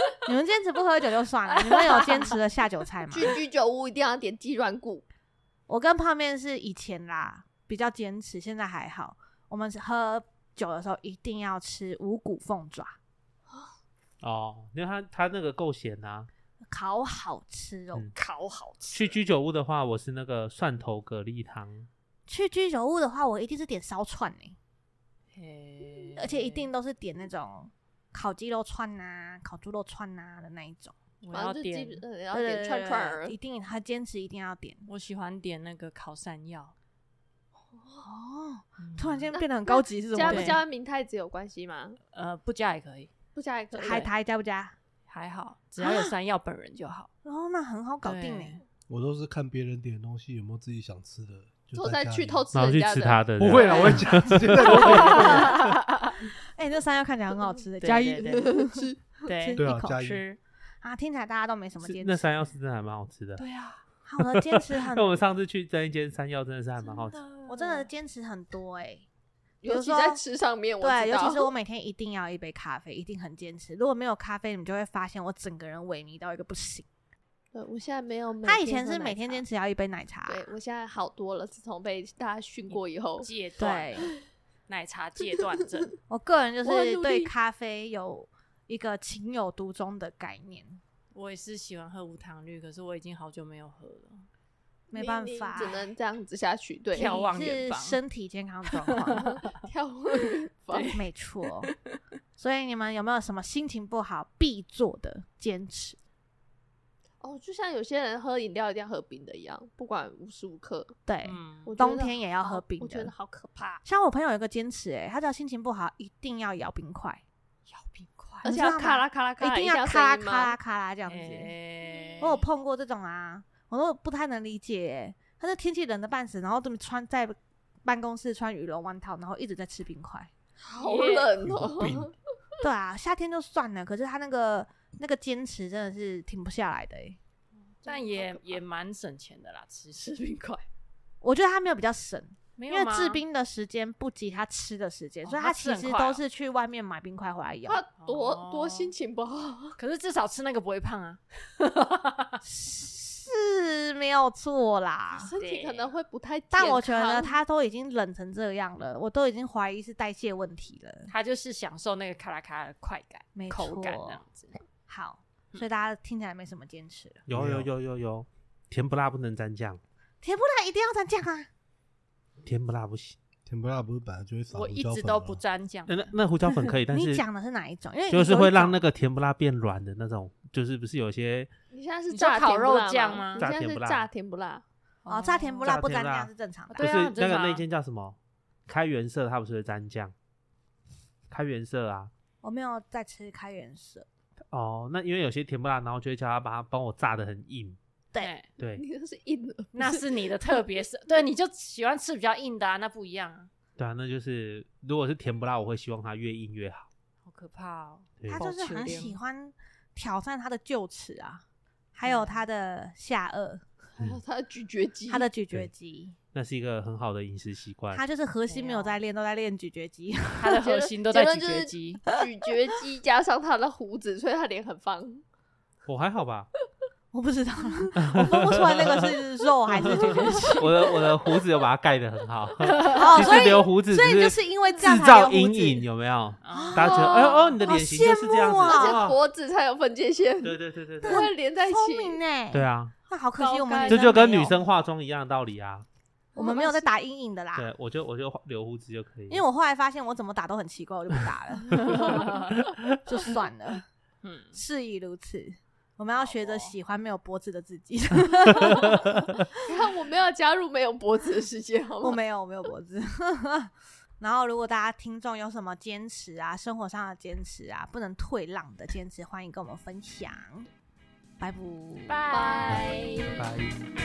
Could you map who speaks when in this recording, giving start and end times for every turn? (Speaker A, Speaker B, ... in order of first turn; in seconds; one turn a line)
Speaker A: 0.2-3.4
Speaker B: 1.5-2.4
Speaker B: 3.1-5.0
Speaker A: 5.7-13.0
Speaker C: 14.2-16.3
Speaker A: 16.7-18.1
Speaker D: 18.1-19.1
Speaker C: 18.9-21.9
Speaker A: 22.3-24.6
Speaker D: 25.3-26.7
Speaker A: 26.2-30.9
Speaker D: 31.2-32.0
Speaker B: 31.3-33.4
Speaker A: 32.3-34.9
Speaker D: 34.9-36.7
Speaker B: 37.7-38.1
Speaker A: 38.0-40.6
Speaker D: 38.8-39.3
Speaker B: 39.3-42.0
Speaker D: 40.2-40.6
Speaker D: 42.1-43.1
Speaker B: 43.4-44.1
Speaker A: 43.7-44.8
Speaker D: 43.8-44.1
Speaker D: 45.1-47.1
Speaker A: 45.8-46.1
Speaker A: 47.2-48.6
Speaker D: 48.0-48.6
Speaker E: 48.9-52.5
Speaker B: 51.7-54.2
Speaker C: 52.5-55.2
Speaker E: 53.4-55.6
Speaker D: 54.7-56.1
Speaker B: 54.8-55.5
Speaker A: 55.0-55.5
Speaker A: 56.5-58.9
Speaker D: 57.8-58.7
Speaker B: 57.9-59.1
Speaker D: 59.2-60.4
Speaker A: 59.4-60.0
Speaker E: 59.6-60.2
Speaker A: 60.8-62.2
Speaker C: 61.8-63.4
Speaker D: 63.4-63.8
Speaker A: 64.0-65.2
Speaker C: 64.3-67.2
Speaker B: 67.3-67.8
Speaker A: 67.5-69.1
Speaker B: 69.6-71.5
Speaker A: 69.7-70.2
Speaker A: 70.8-76.9
Speaker B: 77.5-79.4
Speaker A: 78.4-80.5
Speaker B: 80.3-83.3
Speaker D: 82.7-84.1
Speaker A: 83.6-84.1
Speaker D: 84.7-86.0
Speaker A: 86.1-90.8
Speaker B: 86.7-87.3
Speaker D: 91.1-94.3
Speaker A: 94.9-95.9
Speaker B: 94.9-97.2
Speaker D: 96.9-98.0
Speaker A: 97.0-99.2
Speaker D: 98.9-99.4
Speaker B: 99.4-100.9
Speaker D: 100.7-101.0
Speaker A: 100.9-101.7
Speaker A: 102.4-106.0
Speaker B: 107.2-111.0
Speaker A: 111.1-113.1
Speaker D: 111.2-111.8
Speaker B: 111.6-113.8
Speaker A: 113.8-117.2
Speaker D: 117.7-118.5
Speaker B: 118.4-120.6
Speaker A: 118.5-121.5
Speaker D: 121.1-122.4
Speaker B: 121.9-122.2
Speaker A: 122.2-130.3
Speaker B: 130.6-132.1
Speaker D: 130.8-131.6
Speaker E: 131.4-132.1
Speaker A: 132.6-137.2
Speaker D: 137.8-140.6
Speaker B: 137.8-138.6
Speaker A: 141.2-147.8
Speaker D: 142.6-143.2
Speaker D: 145.2-146.2
Speaker B: 147.7-149.8
Speaker D: 148.0-148.9
Speaker D: 149.8-152.4
Speaker A: 152.4-155.3
Speaker B: 155.1-157.4
Speaker D: 155.3-156.0
Speaker A: 156.5-161.1
Speaker D: 161.1-164.6
Speaker A: 163.3-164.2
Speaker A: 164.9-167.2
Speaker C: 167.3-169.8
Speaker E: 167.3-167.7
Speaker A: 170.2-171.5
Speaker C: 172.4-173.2
Speaker E: 173.5-175.4
Speaker D: 174.5-176.1
Speaker C: 175.9-177.2
Speaker A: 176.9-178.8
Speaker C: 178.1-181.5
Speaker B: 181.7-184.6
Speaker D: 182.1-183.5
Speaker C: 183.4-184.1
Speaker D: 185.1-185.7
Speaker A: 185.1-186.9
Speaker C: 185.6-190.1
Speaker D: 186.7-187.6
Speaker C: 191.3-192.1
Speaker A: 192.4-194.1
Speaker C: 194.5-197.8
Speaker D: 198.2-198.5
Speaker C: 198.6-198.9
Speaker B: 198.6-200.0
Speaker D: 199.7-203.5
Speaker C: 203.8-206.9
Speaker D: 207.2-209.2
Speaker C: 208.2-208.5
Speaker A: 208.3-211.4
Speaker A: 211.9-213.6
Speaker D: 212.0-212.4
Speaker B: 214.0-215.3
Speaker A: 215.1-216.2
Speaker C: 216.3-218.0
Speaker A: 217.9-220.6
Speaker D: 218.5-219.0
Speaker D: 220.4-222.0
Speaker B: 220.5-225.2
Speaker C: 225.9-226.5
Speaker A: 227.1-230.6
Speaker C: 228.0-229.1
Speaker B: 229.8-231.3
Speaker C: 229.8-239.2
Speaker A: 232.8-235.8
Speaker D: 236.4-237.0
Speaker A: 236.5-239.1
Speaker B: 238.6-242.2
Speaker C: 240.4-241.3
Speaker A: 241.0-244.6
Speaker C: 242.5-242.9
Speaker B: 243.4-244.3
Speaker C: 243.9-245.8
Speaker B: 246.3-246.9
Speaker A: 246.3-247.7
Speaker C: 247.6-249.4
Speaker A: 249.3-252.4
Speaker C: 251.7-252.0
Speaker B: 251.8-252.3
Speaker A: 253.1-253.9
Speaker D: 254.2-254.6
Speaker A: 254.5-259.2
Speaker D: 256.2-256.8
Speaker B: 259.6-262.2
Speaker A: 262.0-270.7
Speaker A: 271.4-272.2
Speaker D: 272.1-273.5
Speaker B: 272.3-273.4